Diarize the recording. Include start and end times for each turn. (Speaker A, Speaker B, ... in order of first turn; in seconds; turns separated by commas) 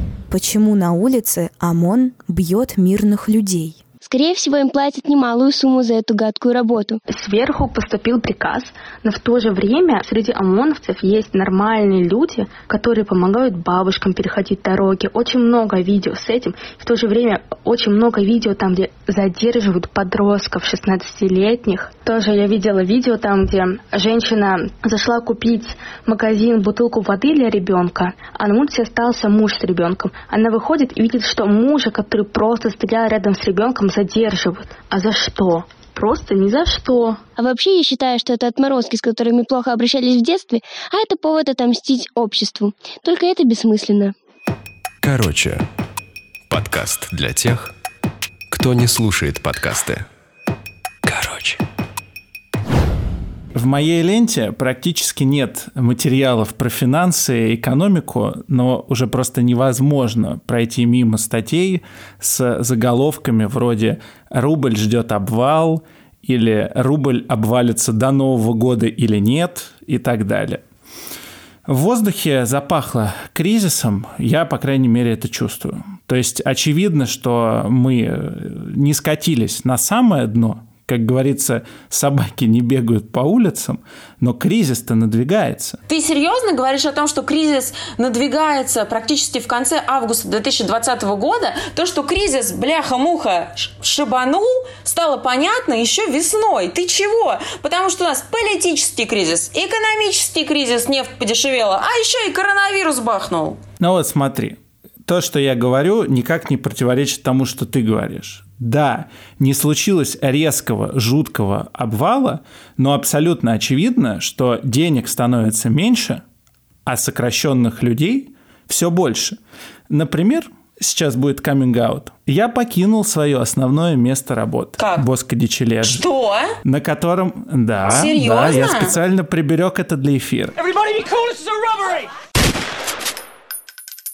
Speaker A: 0.3-3.8, Speaker B: 4.0-7.0, Speaker C: 7.1-37.2, Speaker B: 37.4-44.1, Speaker D: 45.0-45.6, Speaker D: 46.5-47.7, Speaker D: 48.5-50.1, Speaker D: 51.0-51.6, Speaker E: 53.5-70.6, Speaker E: 71.7-85.8, Speaker F: 85.9-103.6, Speaker E: 103.8-116.2, Speaker E: 116.9-119.4, Speaker E: 119.9-126.0, Speaker F: 124.8-125.0, Speaker F: 125.8-126.6, Speaker E: 126.6-132.0, Speaker F: 127.8-128.9